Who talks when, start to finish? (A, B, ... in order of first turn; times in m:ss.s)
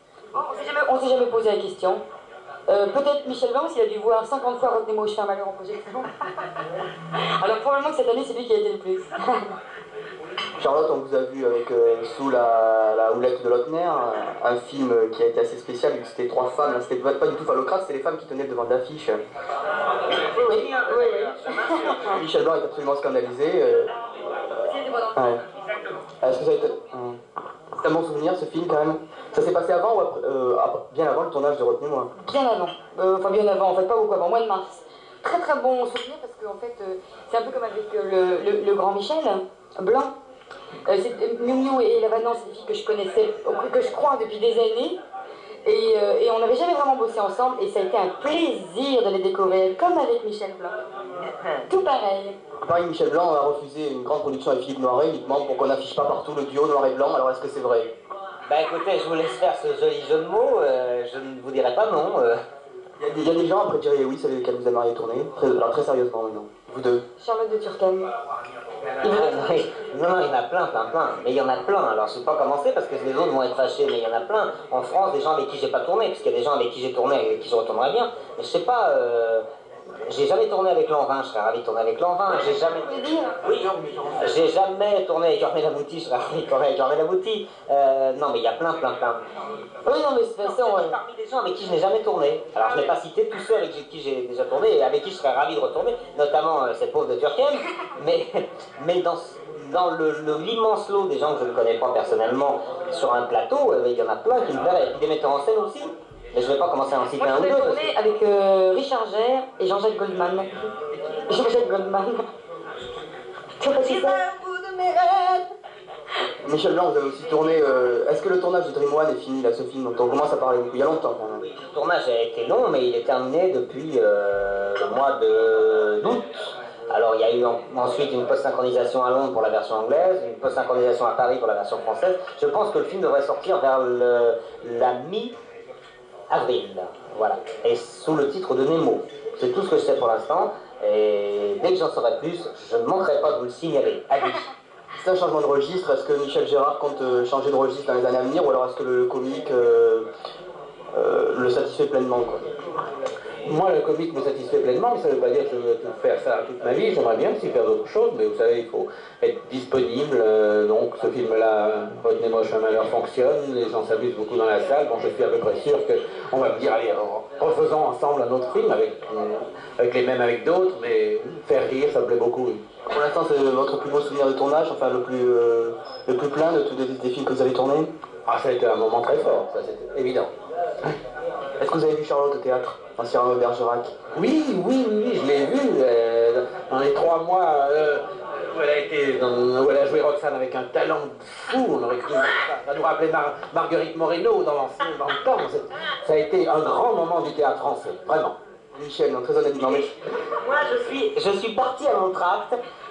0:00.3-0:02.0 A
0:02.7-0:06.1 A
0:07.4-0:09.4 A
0:10.6-0:19.2 B
0:20.3-0:22.2 C
0:20.3-0:22.0 A
0:22.0-0:23.9 B
0:24.8-0:25.1 A
0:25.1-0:25.4 B
0:26.2-0:27.2 B
0:27.8-0:32.1 B
0:32.2-0:40.1 A
0:40.9-0:45.0 A
0:45.6-0:50.7 A
0:51.7-0:52.3 A
0:52.6-0:57.9 B
0:58.5-1:02.4 C
1:03.0-1:07.0 B
1:07.2-1:08.1 A
1:09.0-1:19.4 C
1:09.0-1:09.4 A
1:20.0-1:29.2 C
1:22.5-1:23.3 A
1:29.8-1:30.9 A
1:30.4-1:47.9 C
1:47.1-1:50.7 A
1:51.3-1:52.2 A
1:53.6-1:54.2 A
1:53.8-1:55.5 C
1:56.4-2:01.4 B
2:01.5-2:15.3 C
2:16.3-2:24.4 C
2:25.0-2:30.1 B
2:30.9-2:32.5 B
2:33.4-2:52.6 D
2:52.9-2:57.9 B
2:58.2-3:00.3 D
3:01.6-3:03.9 B
3:04.1-3:18.3 D
3:18.7-3:19.9 B
3:19.7-3:22.5 C